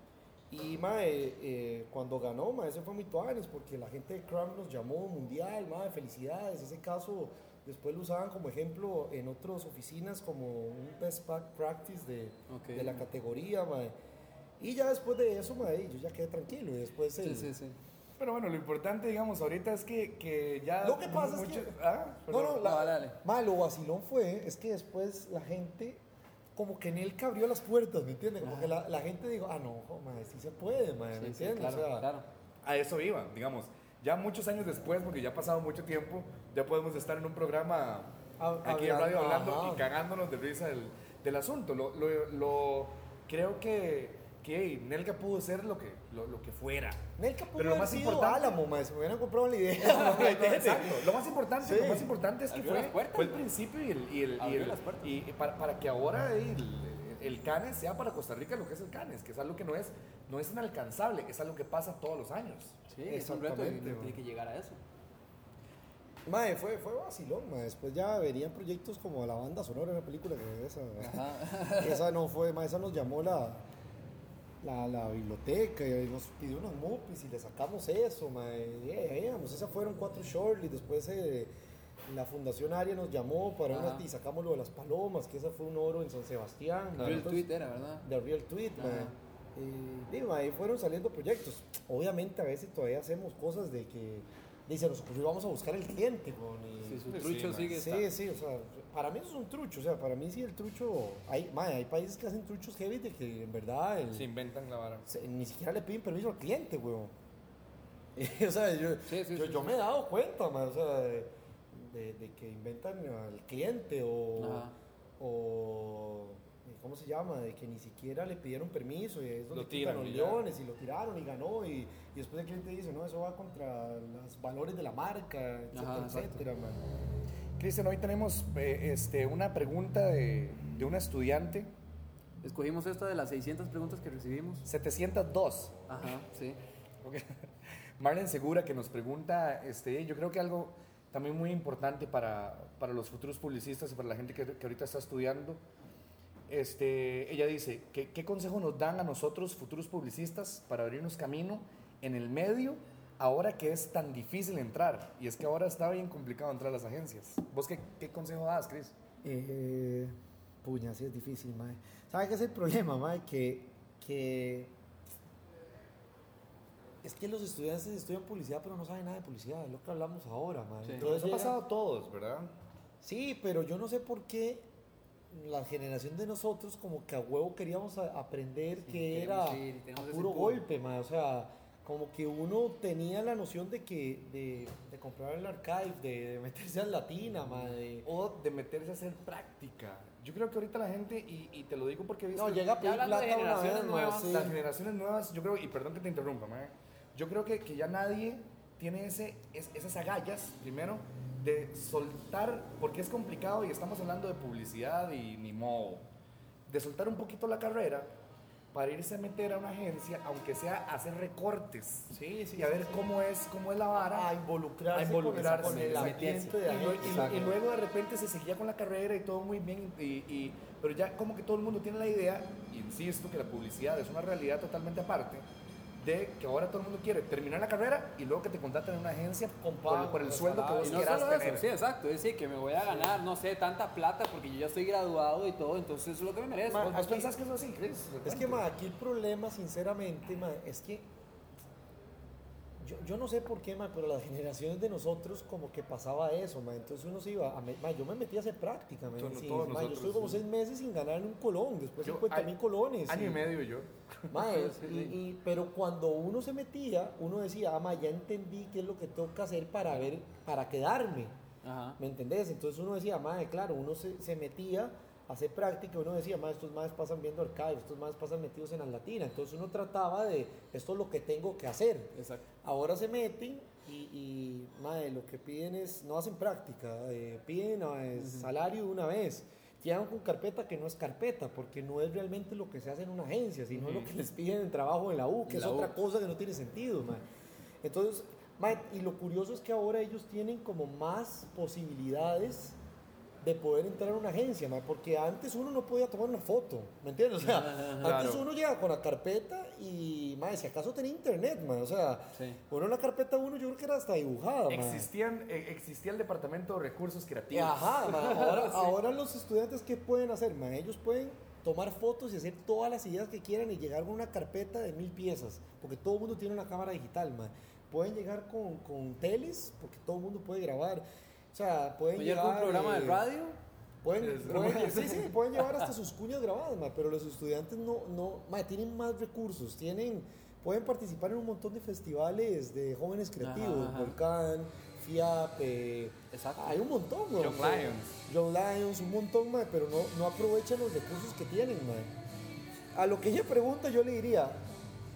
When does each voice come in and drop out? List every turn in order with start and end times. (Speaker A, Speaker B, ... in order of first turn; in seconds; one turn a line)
Speaker A: 0.5-13.9
Speaker B: 12.5-13.0
Speaker A: 14.6-17.5
Speaker B: 17.2-17.8
Speaker C: 18.2-22.8
Speaker A: 20.8-21.7
Speaker A: 22.3-26.0
Speaker B: 22.6-23.2
Speaker A: 26.5-32.1
Speaker B: 28.4-28.8
Speaker B: 31.1-32.2
Speaker C: 32.6-47.0
Speaker A: 38.4-39.9
Speaker A: 47.2-52.1
Speaker C: 47.5-48.6
Speaker C: 49.8-62.8
Speaker B: 52.5-53.4
Speaker B: 54.4-55.1
Speaker B: 62.9-64.8
Speaker A: 63.0-64.2
Speaker A: 66.2-73.6
Speaker B: 71.0-72.0
Speaker A: 74.6-81.5
Speaker A: 82.0-87.5
Speaker B: 83.7-84.0
Speaker B: 87.0-88.0
Speaker A: 88.0-97.1
Speaker B: 88.8-89.1
Speaker B: 96.8-98.1
Speaker C: 97.1-97.8
Speaker A: 97.7-104.3
Speaker C: 104.1-105.0
Speaker A: 105.0-107.1
Speaker A: 108.2-126.8
Speaker B: 109.0-109.8
Speaker B: 114.4-114.7
Speaker C: 119.5-120.4
Speaker B: 125.7-126.4
Speaker C: 127.6-131.7
Speaker B: 132.4-134.6
Speaker C: 134.6-135.8
Speaker B: 135.9-136.6
Speaker C: 137.0-145.6
Speaker C: 146.5-158.9
Speaker A: 159.2-164.7
Speaker A: 167.0-171.6
Speaker C: 171.0-172.5
Speaker A: 173.0-174.7
Speaker A: 175.3-188.1
Speaker B: 178.8-180.6
Speaker C: 188.0-192.7
Speaker A: 192.3-194.6
Speaker B: 192.8-194.5
Speaker C: 194.3-206.1
Speaker C: 206.7-208.1
Speaker C: 208.7-214.3
Speaker A: 212.1-213.0
Speaker A: 214.1-217.6
Speaker C: 214.9-225.4
Speaker B: 215.4-217.5
Speaker C: 226.0-231.6
Speaker A: 229.6-231.2
Speaker B: 230.8-237.0
Speaker A: 232.8-233.2
Speaker A: 236.7-237.3
Speaker C: 236.7-238.6
Speaker A: 238.2-241.1
Speaker A: 242.8-253.5
Speaker C: 249.2-250.4
Speaker C: 252.0-252.5
Speaker C: 253.1-254.4
Speaker A: 254.3-261.3
Speaker B: 254.4-255.2
Speaker B: 261.6-262.0
Speaker A: 262.0-287.2
Speaker B: 272.1-272.4
Speaker B: 278.1-278.5
Speaker B: 283.7-284.1
Speaker B: 285.5-285.9
Speaker A: 287.8-292.8
Speaker A: 293.4-305.1
Speaker B: 297.4-298.1
Speaker C: 298.0-298.4
Speaker B: 302.3-302.6
Speaker C: 304.7-308.0
Speaker A: 307.5-323.3
Speaker B: 308.1-308.9
Speaker B: 322.1-323.6
Speaker A: 324.0-342.1
Speaker C: 324.2-325.2
Speaker B: 324.4-325.9
Speaker B: 333.4-334.1
Speaker B: 336.3-336.8
Speaker C: 337.4-338.2
Speaker A: 342.9-344.6